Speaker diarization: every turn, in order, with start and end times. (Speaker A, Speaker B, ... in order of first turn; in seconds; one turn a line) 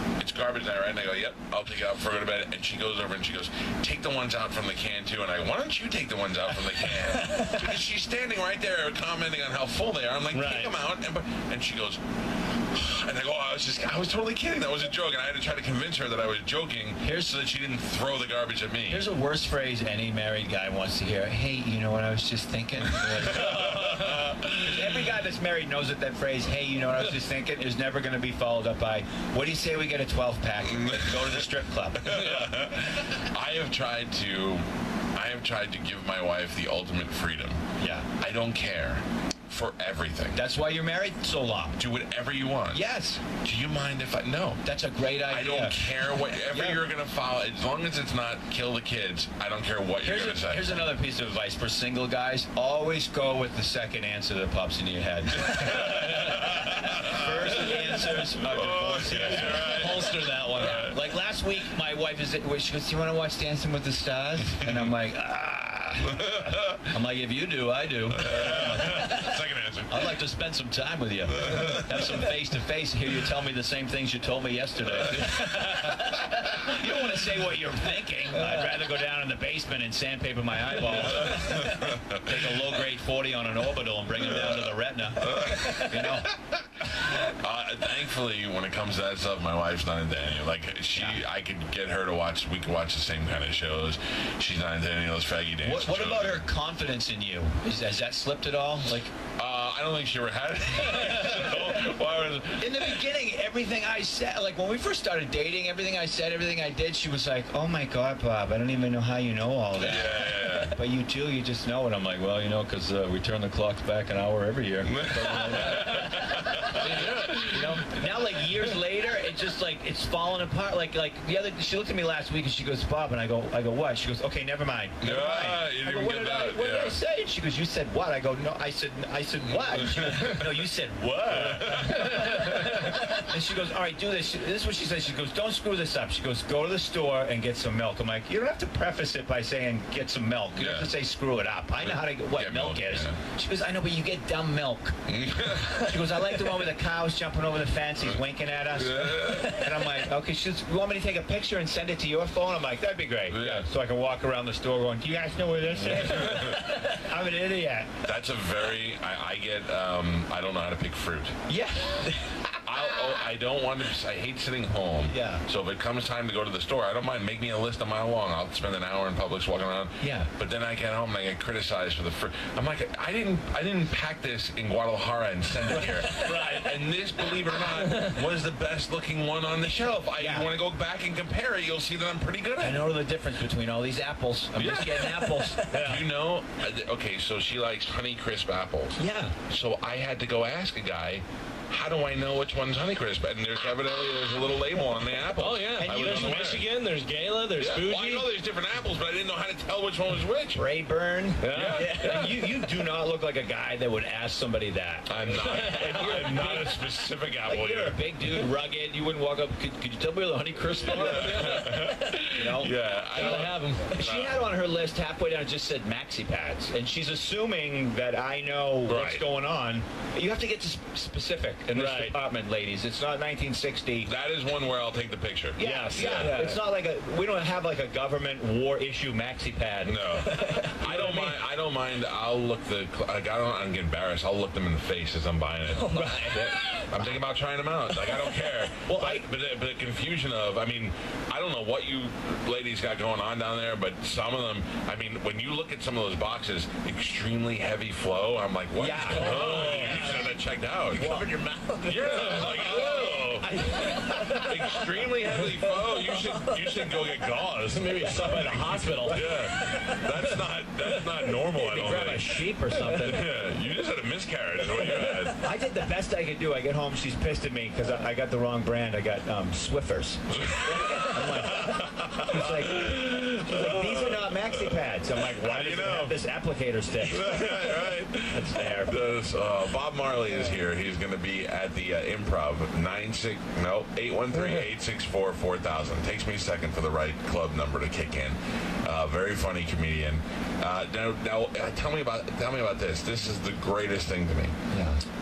Speaker A: 0.2-19.1
Speaker B: 10.3-10.8
Speaker C: 17.0-17.4
Speaker C: 18.9-32.4
Speaker A: 22.9-25.1
Speaker B: 23.4-24.1
Speaker A: 30.7-31.4
Speaker A: 32.0-37.6
Speaker C: 37.8-38.1
Speaker A: 38.2-40.4
Speaker C: 40.4-41.8
Speaker A: 41.8-44.7
Speaker C: 42.7-43.2
Speaker C: 44.6-46.8
Speaker A: 45.2-50.9
Speaker C: 50.0-86.3
Speaker A: 55.4-61.0
Speaker A: 64.6-64.9
Speaker A: 66.0-66.8
Speaker A: 68.1-70.2
Speaker A: 71.3-72.2
Speaker A: 74.9-76.4
Speaker A: 80.8-82.7
Speaker A: 84.2-96.5
Speaker C: 90.9-91.2
Speaker C: 95.6-99.2
Speaker A: 99.4-103.1
Speaker C: 100.9-101.9
Speaker C: 102.6-158.0
Speaker A: 109.8-110.8
Speaker A: 114.8-118.2
Speaker B: 115.5-117.7
Speaker A: 125.0-127.0
Speaker A: 129.5-130.7
Speaker A: 131.3-133.3
Speaker A: 140.6-140.9
Speaker A: 141.8-143.2
Speaker A: 145.1-146.2
Speaker A: 148.7-150.1
Speaker A: 153.3-153.7
Speaker A: 155.7-156.9
Speaker A: 158.0-161.4
Speaker C: 161.5-163.1
Speaker A: 162.6-183.1
Speaker C: 165.1-165.4
Speaker C: 170.0-170.3
Speaker B: 176.0-176.8
Speaker B: 177.7-178.2
Speaker C: 180.2-180.5
Speaker C: 182.6-185.7
Speaker B: 184.6-186.1
Speaker A: 185.7-196.7
Speaker C: 189.0-189.4
Speaker B: 195.3-198.3
Speaker C: 195.6-196.6
Speaker A: 197.6-200.7
Speaker C: 200.5-206.7
Speaker B: 201.4-202.7
Speaker A: 201.5-202.0
Speaker A: 205.1-208.5
Speaker B: 205.3-206.9
Speaker C: 207.4-213.4
Speaker A: 210.8-214.5
Speaker B: 210.9-212.2
Speaker B: 213.2-214.0
Speaker C: 213.9-224.1
Speaker A: 218.9-219.2
Speaker B: 221.7-222.2
Speaker A: 224.0-226.4
Speaker C: 225.6-230.2
Speaker B: 225.6-226.6
Speaker A: 229.8-251.3
Speaker B: 230.2-231.4
Speaker B: 235.8-236.9
Speaker C: 236.1-236.4
Speaker C: 238.9-239.3
Speaker C: 248.8-250.2
Speaker B: 249.1-250.4
Speaker B: 250.9-257.1
Speaker C: 250.9-252.0
Speaker A: 251.8-265.5
Speaker C: 252.9-254.8
Speaker B: 257.6-262.8
Speaker C: 259.1-259.6
Speaker C: 261.5-263.4
Speaker B: 264.7-265.4
Speaker C: 265.4-277.8
Speaker A: 270.3-276.2
Speaker A: 277.0-294.6
Speaker C: 278.3-279.1
Speaker C: 294.7-295.0